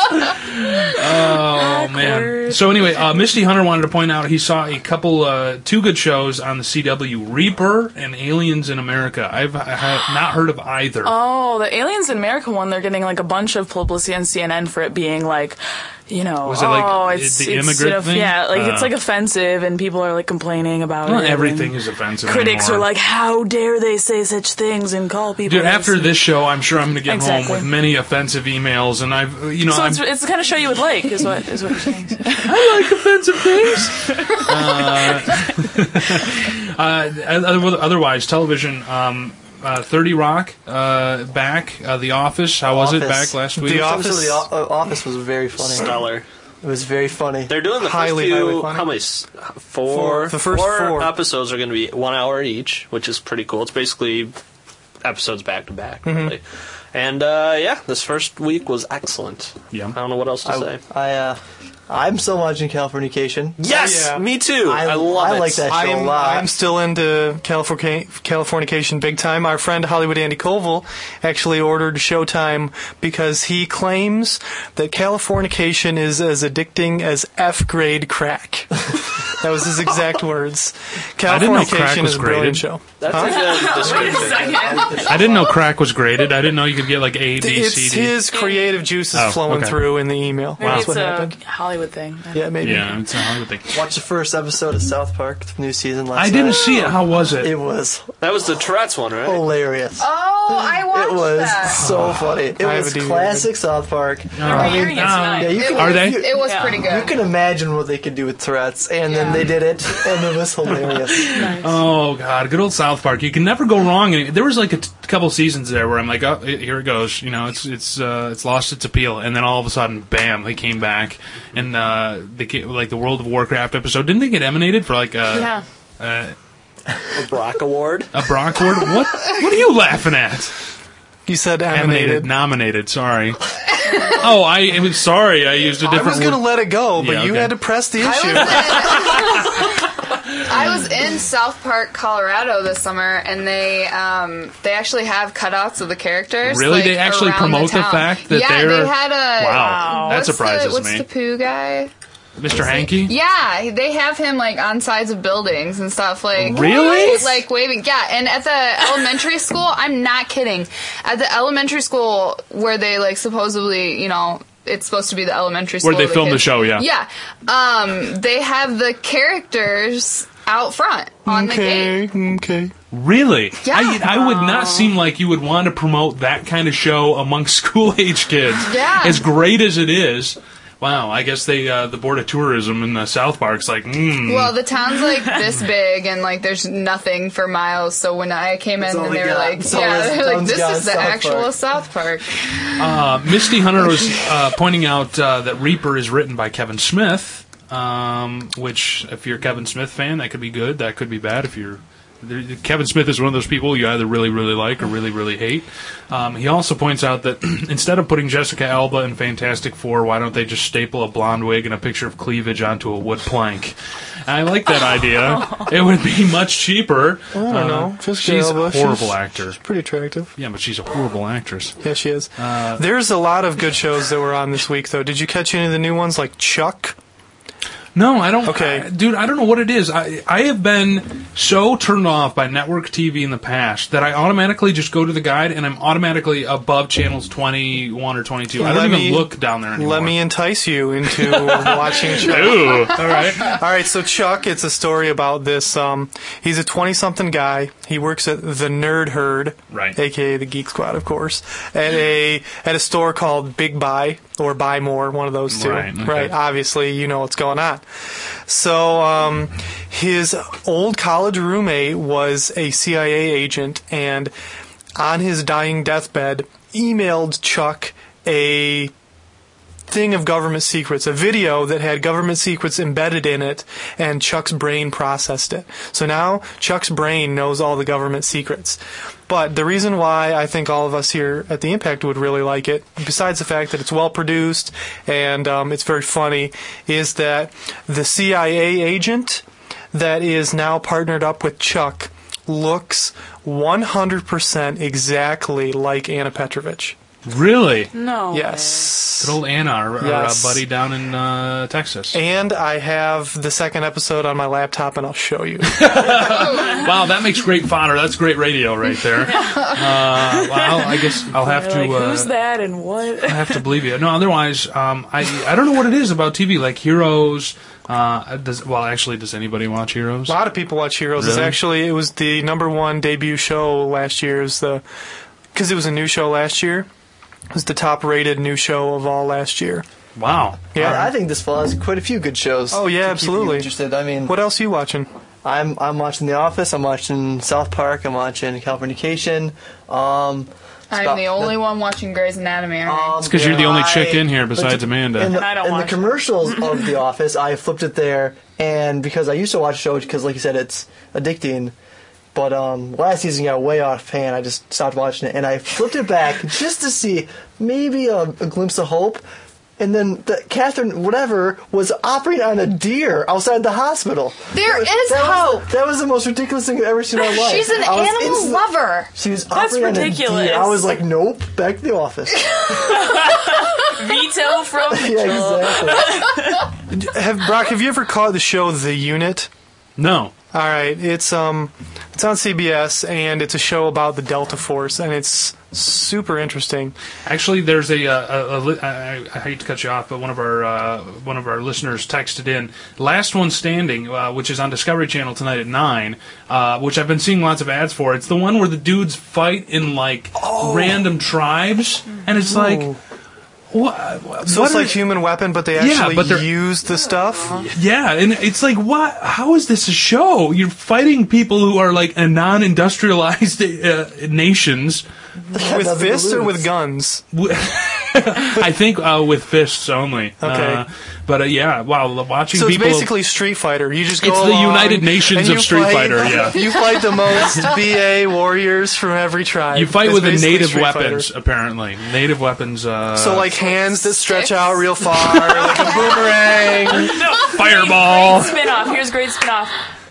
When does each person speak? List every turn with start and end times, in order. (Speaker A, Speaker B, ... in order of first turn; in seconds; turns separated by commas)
Speaker A: 0.5-11.2, Speaker B: 1.4-3.0, Speaker B: 11.0-26.3, Speaker A: 16.4-19.0, Speaker A: 21.1-22.9, Speaker A: 25.5-30.0, Speaker B: 27.0-27.7, Speaker B: 29.7-32.6, Speaker A: 32.4-44.0, Speaker B: 33.9-35.5, Speaker C: 42.7-45.9, Speaker D: 43.6-44.5, Speaker E: 45.6-46.3, Speaker C: 46.6-47.6, Speaker E: 47.5-54.4, Speaker D: 47.7-49.0, Speaker D: 49.9-51.2, Speaker E: 55.0-60.8, Speaker D: 56.0-56.4, Speaker C: 60.5-63.6, Speaker E: 63.6-65.7, Speaker D: 63.7-64.2, Speaker C: 64.6-66.5, Speaker D: 65.7-83.6, Speaker A: 81.3-82.7, Speaker E: 83.0-84.8, Speaker B: 83.1-85.3, Speaker C: 83.2-85.6, Speaker A: 85.0-88.2, Speaker D: 87.4-91.4, Speaker B: 88.3-88.8, Speaker A: 89.1-89.8, Speaker B: 90.6-92.9, Speaker A: 90.6-90.9, Speaker D: 92.3-93.0, Speaker A: 92.6-93.8, Speaker C: 93.7-98.1, Speaker A: 96.2-97.5, Speaker E: 98.2-99.5, Speaker C: 99.2-111.4, Speaker F: 100.0-101.8, Speaker A: 101.8-102.3, Speaker D: 102.6-103.5, Speaker A: 104.4-106.3, Speaker B: 104.4-105.7, Speaker F: 105.6-107.2, Speaker B: 106.3-106.8, Speaker B: 109.1-109.6, Speaker B: 111.2-111.8, Speaker A: 111.3-126.3, Speaker B: 125.3-125.7, Speaker E: 127.1-128.1, Speaker A: 128.1-130.5, Speaker D: 131.3-132.3, Speaker A: 131.7-137.6, Speaker D: 135.8-139.0, Speaker F: 138.0-139.7, Speaker A: 138.6-139.4, Speaker F: 140.4-151.9, Speaker A: 146.4-151.1, Speaker B: 149.5-150.2, Speaker A: 152.4-153.1, Speaker F: 152.5-172.0, Speaker A: 156.4-157.4, Speaker A: 165.8-166.9, Speaker D: 171.2-172.7, Speaker A: 172.9-184.6, Speaker F: 173.6-174.9, Speaker F: 178.7-179.2, Speaker F: 184.3-192.6, Speaker C: 188.8-191.5, Speaker A: 192.8-213.8, Speaker A: 214.3-219.6, Speaker B: 215.2-215.7, Speaker D: 217.3-220.3, Speaker A: 220.4-221.8, Speaker D: 221.8-227.0, Speaker A: 222.4-222.8, Speaker A: 227.9-240.2, Speaker D: 228.4-228.9, Speaker D: 238.6-257.9, Speaker A: 241.1-243.6, Speaker A: 249.7-250.0, Speaker A: 255.5-256.3, Speaker D: 258.5-264.3, Speaker D: 265.0-268.9, Speaker D: 269.9-297.0, Speaker A: 297.3-297.9, Speaker B: 297.9-298.9, Speaker D: 298.3-299.4, Speaker A: 299.2-302.2, Speaker D: 300.0-300.6, Speaker D: 302.1-306.1, Speaker A: 305.7-312.3, Speaker B: 309.2-313.7, Speaker A: 313.3-320.4, Speaker D: 320.3-324.8, Speaker A: 321.2-321.6, Speaker D: 325.5-326.9, Speaker D: 327.5-329.9, Speaker A: 330.2-331.1, Speaker D: 330.8-331.1, Speaker C: 330.8-334.4, Speaker D: 332.7-333.7, Speaker D: 334.2-335.1, Speaker C: 335.4-341.6, Speaker F: 340.9-344.2, Speaker C: 342.9-351.7, Speaker A: 343.2-345.4, Speaker B: 345.3-346.9, Speaker C: 352.3-359.2, Speaker C: 359.8-368.6, Speaker F: 364.5-365.7, Speaker F: 367.3-369.1, Speaker C: 369.1-372.9, Speaker B: 369.5-371.0, Speaker B: 372.9-376.6, Speaker C: 374.9-376.3, Speaker D: 376.9-379.5, Speaker A: 380.0-380.3, Speaker D: 380.5-386.9, Speaker A: 387.3-402.9, Speaker C: 400.6-401.0, Speaker D: 402.4-403.0, Speaker A: 403.7-405.1, Speaker D: 404.5-407.7, Speaker A: 405.8-406.5, Speaker A: 407.7-415.1, Speaker C: 415.5-416.7, Speaker D: 415.6-417.2, Speaker A: 417.3-423.1, Speaker D: 420.4-420.9, Speaker D: 422.5-431.3, Speaker A: 424.2-427.6, Speaker A: 429.7-433.5, Speaker D: 433.1-437.2, Speaker F: 433.5-434.9, Speaker A: 435.5-438.6, Speaker B: 436.9-439.8